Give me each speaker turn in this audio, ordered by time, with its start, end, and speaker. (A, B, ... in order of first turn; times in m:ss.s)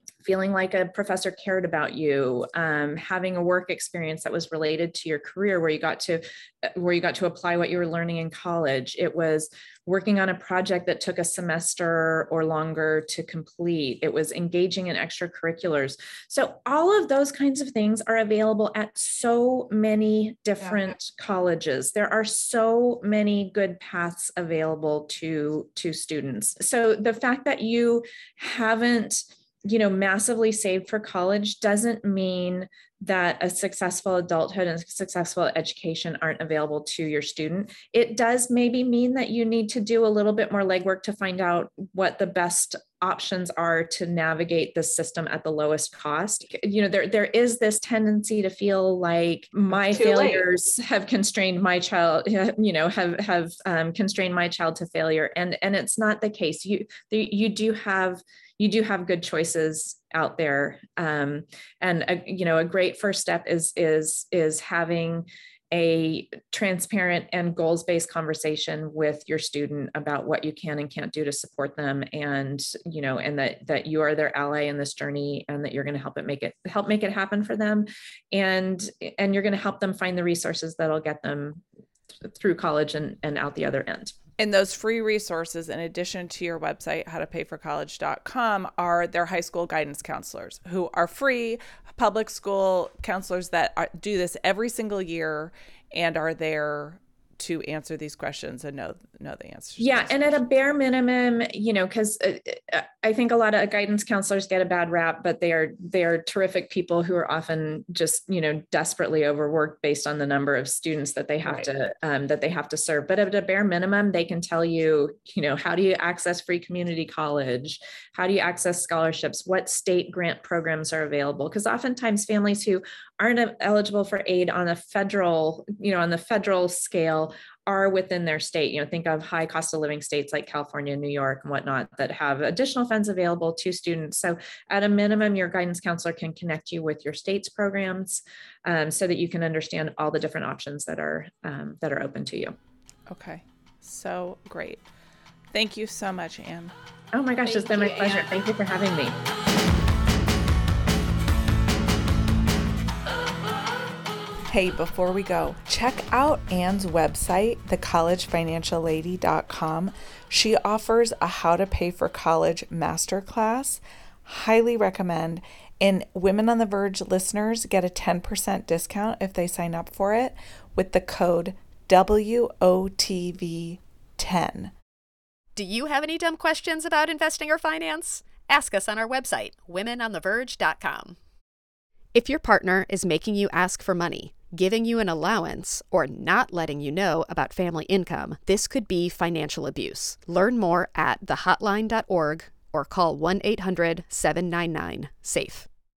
0:00.2-1:21.6 A
0:49.7-0:50.5 B
1:22.2-1:24.1 A
1:24.4-1:40.4 B
1:39.8-2:22.6 A
2:23.1-2:24.8 B
2:25.5-2:26.7 B
2:27.1-2:29.2 A
2:27.5-2:28.2 C
2:34.5-2:54.7 B
2:55.6-3:01.2 C
3:02.1-3:15.7 C